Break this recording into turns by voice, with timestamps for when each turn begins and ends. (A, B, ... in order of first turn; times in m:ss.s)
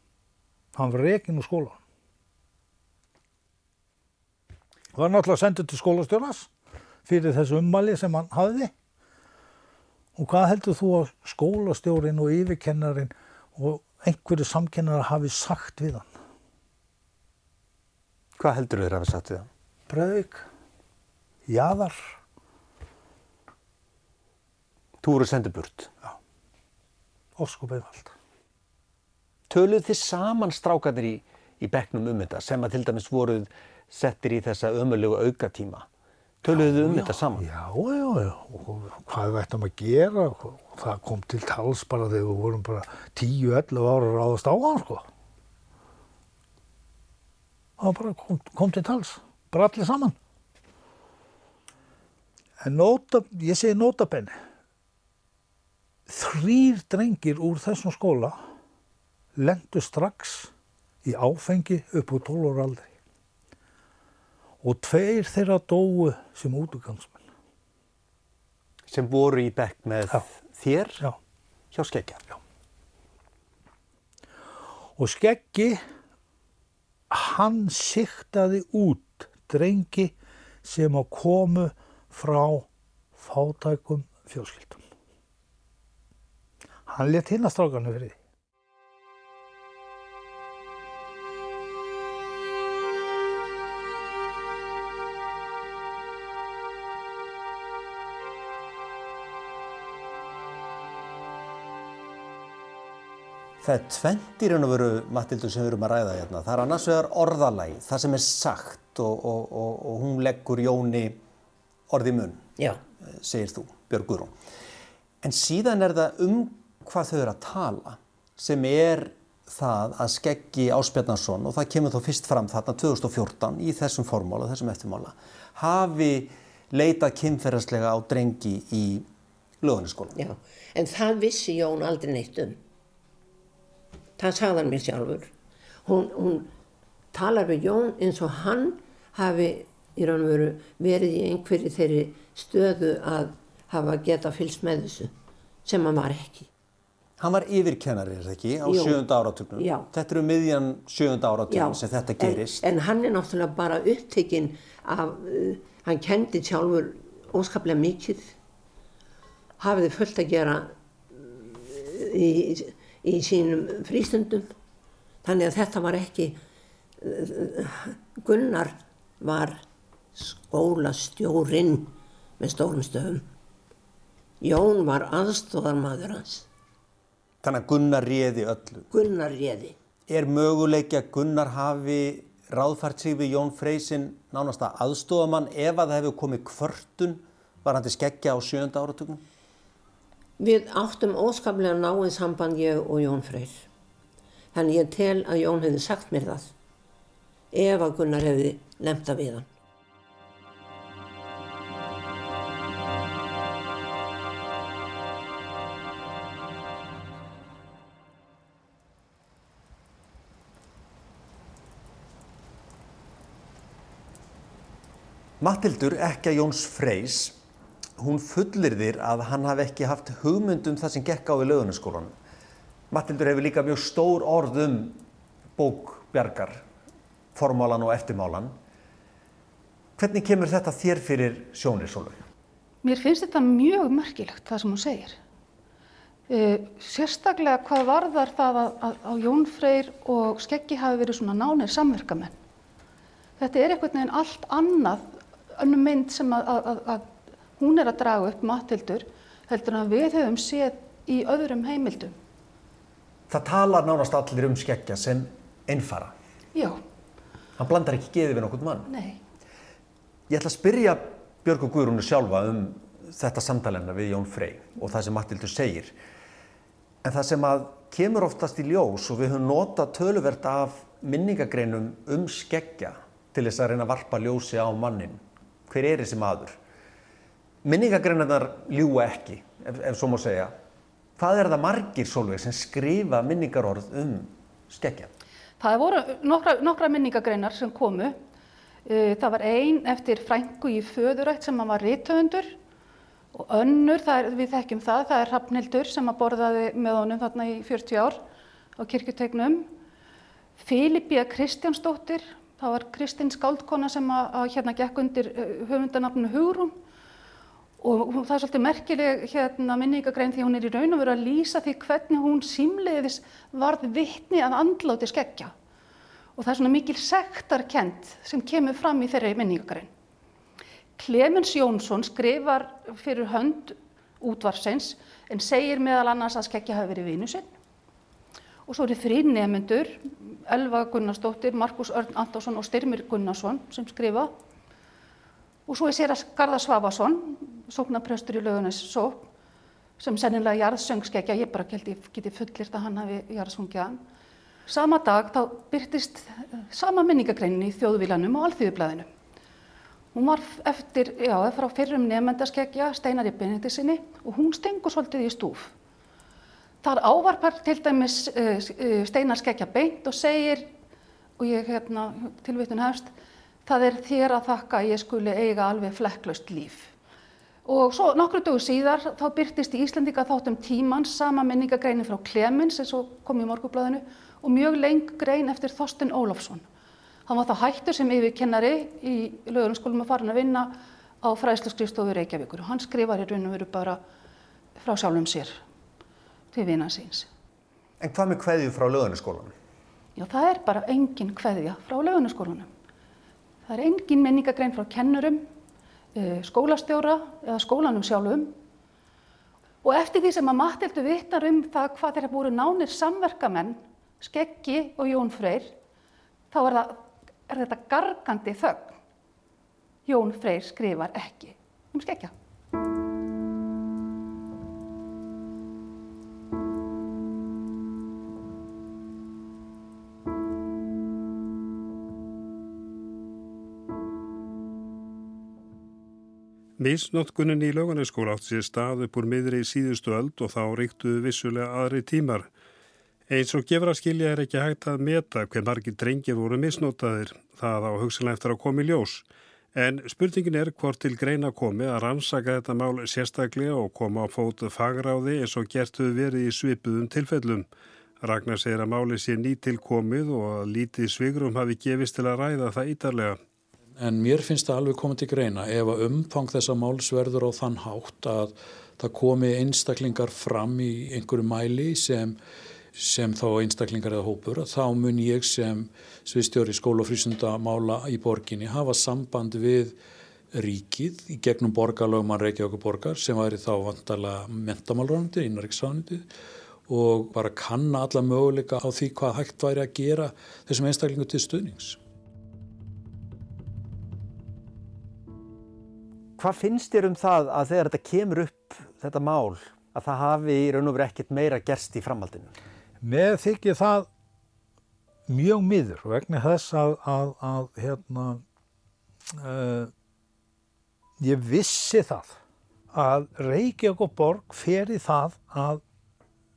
0:00.8-0:01.8 A
0:04.9-0:06.5 A
0:07.1-0:08.7 A
0:10.2-0:16.1 A
0:18.4-0:19.5 B
0:19.9-0:20.5 A
0:21.5-0:22.2 A
0:25.0-0:25.9 B
0:27.4-0:28.1 A
0:29.5-0:35.9 B
0:36.4-0:37.5 B
0:36.5-0:45.1 A
0:47.8-0:50.2 A
0:52.6-0:54.4 A
0:56.1-0:58.4 A
0:59.4-1:00.5 A
1:01.0-1:02.9 A
1:04.6-1:07.2 A
1:08.9-1:11.0 B
1:11.7-1:12.3 B
1:15.0-1:15.8 A
1:17.1-1:24.8 A
1:26.9-1:28.2 A
1:43.6-1:51.2 B
1:51.9-1:52.5 B
1:53.0-1:54.4 B
1:55.2-2:09.1 B
2:09.6-2:10.2 B
2:10.2-2:12.6 C
2:14.2-2:15.3 C
2:15.8-2:16.5 C
2:17.1-2:25.1 C
2:25.6-2:26.5 C
2:27.2-2:32.6 B
2:28.6-2:29.9 C
2:31.5-2:38.3 C
2:39.6-2:44.5 C
2:45.2-2:46.4 C
2:47.0-2:49.6 C
2:50.2-2:53.3 C
2:54.4-2:56.5 C
2:57.4-2:58.9 B
2:58.9-2:59.8 C
3:00.1-3:09.2 B
3:10.4-3:13.7 C
3:14.5-3:16.5 C
3:17.5-3:19.5 C
3:35.4-3:37.4 B
3:38.0-3:42.1 B
3:42.9-3:45.0 B
3:45.6-3:46.6 B
3:47.4-3:48.6 B
3:50.0-3:52.2 B
3:52.8-3:55.2 D
3:56.3-4:02.4 D
4:03.4-4:12.2 D
4:13.3-4:16.1 B
4:16.6-4:16.8 D
4:17.6-4:18.9 B
4:18.9-4:19.2 D
4:20.3-4:26.0 B
4:27.0-4:36.6 B
4:37.6-4:40.5 B
4:41.2-4:45.1 B
4:45.6-4:48.2 D
4:48.8-4:52.5 D
4:53.3-4:58.2 D
4:58.8-4:59.7 D
5:00.6-5:06.8 D
5:07.8-5:15.5 D
5:16.4-5:19.9 D
5:21.0-5:27.5 D
5:28.7-5:34.3 D
5:35.7-5:39.3 D
5:40.0-5:44.0 D
5:44.7-5:49.1 D
5:50.1-5:55.7 D
5:56.8-6:00.7 D
6:01.4-6:03.1 D
6:03.7-6:06.9 D
6:07.7-6:16.6 D
6:17.3-6:24.0 D
6:24.8-6:25.6 D
6:26.5-6:27.3 D
6:28.0-6:29.5 B
6:30.2-6:32.7 D
6:33.7-6:35.4 D
6:36.2-6:38.5 D
6:39.8-6:45.7 D
6:46.5-6:49.0 D
6:50.1-6:52.3 D
7:06.8-7:12.5 E
7:13.3-7:27.7 E
7:28.2-7:33.4 E
7:34.0-7:42.4 F
7:43.0-7:50.0 F
7:50.5-7:56.3 F
7:56.9-8:02.0 F
8:06.4-8:12.5 B
8:13.0-8:14.1 A
8:15.3-8:18.4 A
8:19.3-8:19.9 A
8:21.2-8:22.4 A
8:22.9-8:25.8 A